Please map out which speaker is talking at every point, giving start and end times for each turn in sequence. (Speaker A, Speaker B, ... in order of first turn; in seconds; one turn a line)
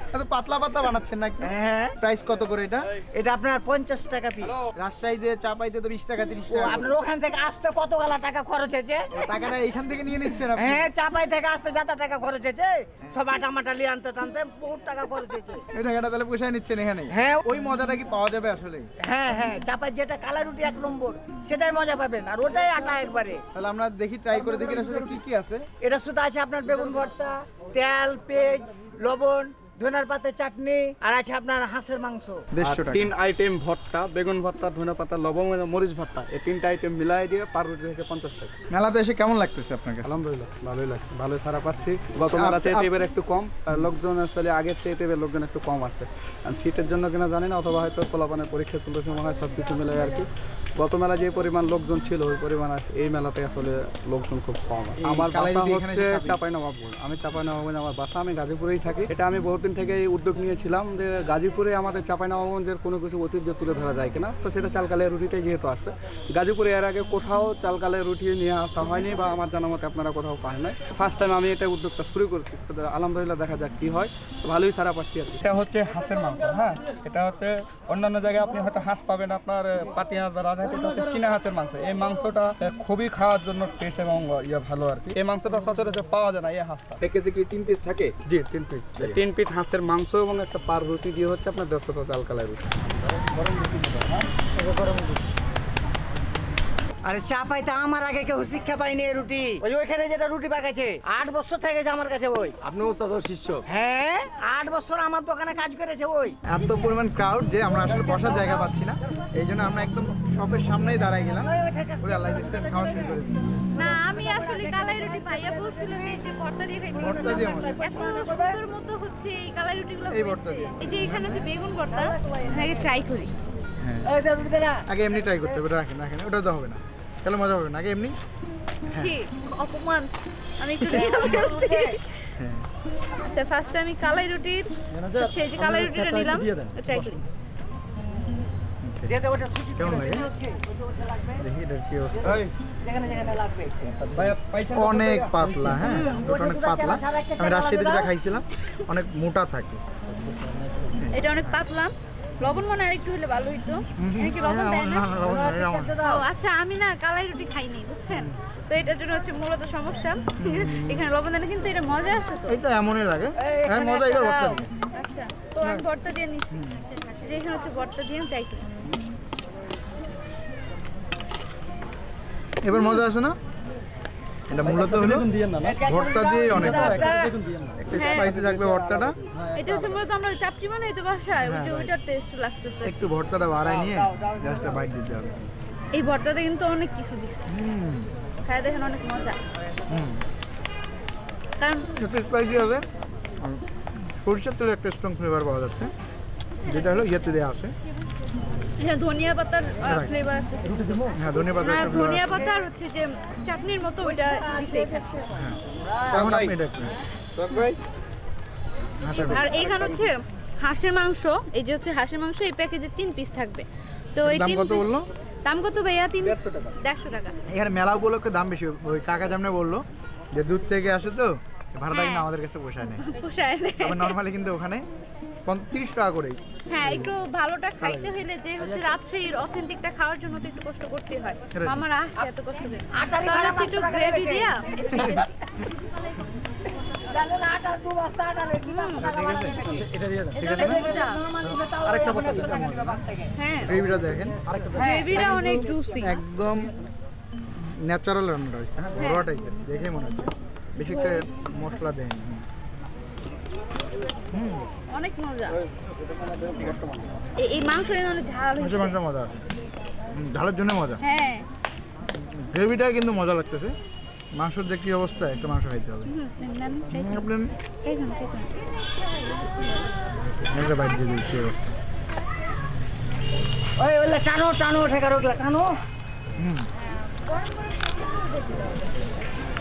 Speaker A: 0.1-2.9
Speaker B: 1.4-1.9
Speaker B: 3.1-4.6
Speaker A: 4.7-6.9
Speaker B: 6.5-9.5
Speaker A: 9.1-10.9
Speaker B: 10.6-15.7
Speaker A: 15.7-18.9
Speaker B: 17.1-17.4
Speaker B: 19.0-23.4
Speaker A: 23.5-25.7
Speaker B: 24.6-24.9
Speaker B: 25.8-32.5
Speaker A: 32.5-33.1
Speaker C: 32.6-38.5
Speaker A: 38.7-40.1
Speaker C: 40.0-87.0
Speaker A: 42.3-42.9
Speaker A: 55.0-56.4
Speaker A: 87.0-88.1
Speaker C: 88.2-92.7
Speaker A: 88.9-89.2
Speaker B: 94.6-95.2
Speaker B: 97.0-102.6
Speaker B: 103.6-106.4
Speaker A: 106.4-113.7
Speaker B: 107.9-108.7
Speaker B: 111.4-113.2
Speaker D: 113.7-123.3
Speaker B: 113.8-116.2
Speaker B: 116.9-118.6
Speaker A: 117.0-117.8
Speaker A: 120.1-121.4
Speaker B: 121.9-122.9
Speaker A: 123.8-124.1
Speaker B: 124.0-125.6
Speaker A: 124.8-128.1
Speaker D: 128.9-132.3
Speaker A: 130.9-131.2
Speaker B: 130.9-132.0
Speaker A: 132.4-132.7
Speaker D: 133.1-137.2
Speaker A: 138.8-139.1
Speaker B: 139.1-141.4
Speaker A: 139.8-140.3
Speaker A: 141.4-142.4
Speaker C: 142.2-142.5
Speaker B: 142.8-144.2
Speaker C: 144.1-145.9
Speaker A: 144.7-149.8
Speaker D: 145.8-146.2
Speaker B: 146.0-148.1
Speaker A: 150.9-151.2
Speaker D: 151.1-155.1
Speaker A: 154.0-156.0
Speaker B: 155.1-156.2
Speaker D: 156.0-162.5
Speaker A: 160.4-161.1
Speaker A: 162.5-164.7
Speaker B: 163.4-164.6
Speaker D: 164.9-168.7
Speaker A: 166.5-166.8
Speaker A: 172.6-173.4
Speaker D: 172.7-173.0
Speaker A: 174.5-179.2
Speaker B: 175.6-177.4
Speaker D: 177.0-177.3
Speaker D: 177.9-178.3
Speaker D: 179.5-183.0
Speaker A: 181.4-181.9
Speaker A: 182.8-185.4
Speaker B: 183.8-184.6
Speaker D: 185.9-187.4
Speaker A: 187.5-188.1
Speaker D: 188.4-189.4
Speaker A: 189.9-190.2
Speaker D: 191.6-191.9
Speaker A: 191.9-192.8
Speaker A: 193.4-195.9
Speaker A: 196.6-197.7
Speaker D: 198.8-205.1
Speaker A: 199.8-200.1
Speaker A: 201.1-202.5
Speaker B: 204.0-205.3
Speaker A: 205.3-206.9
Speaker C: 206.1-206.5
Speaker C: 207.3-207.8
Speaker A: 209.0-209.5
Speaker D: 209.1-214.9
Speaker C: 209.2-210.1
Speaker A: 214.2-215.1
Speaker D: 215.4-217.4
Speaker C: 216.2-216.8
Speaker A: 217.5-223.0
Speaker D: 221.9-222.2
Speaker D: 223.0-224.1
Speaker A: 223.8-224.8
Speaker A: 225.4-227.1
Speaker D: 226.7-235.3
Speaker A: 227.8-228.2
Speaker A: 231.5-231.8
Speaker B: 232.9-235.1
Speaker A: 234.9-235.2
Speaker B: 237.0-243.3
Speaker D: 238.6-239.1
Speaker A: 239.0-239.7
Speaker D: 240.3-241.2
Speaker A: 240.4-240.9
Speaker A: 242.0-243.0
Speaker D: 243.4-243.7
Speaker A: 243.6-244.4
Speaker B: 244.7-245.7
Speaker D: 244.8-246.2
Speaker A: 246.0-246.7
Speaker A: 247.5-252.4
Speaker D: 249.0-249.3
Speaker A: 254.3-254.7
Speaker D: 254.9-255.6
Speaker C: 256.2-257.2
Speaker D: 257.4-258.9
Speaker A: 258.6-259.4
Speaker A: 260.1-261.0
Speaker D: 261.0-261.5
Speaker A: 262.1-263.7
Speaker A: 264.3-266.1
Speaker D: 266.1-267.3
Speaker A: 266.9-267.5
Speaker D: 267.8-268.5
Speaker A: 270.5-271.8
Speaker B: 273.8-275.7
Speaker A: 276.4-276.7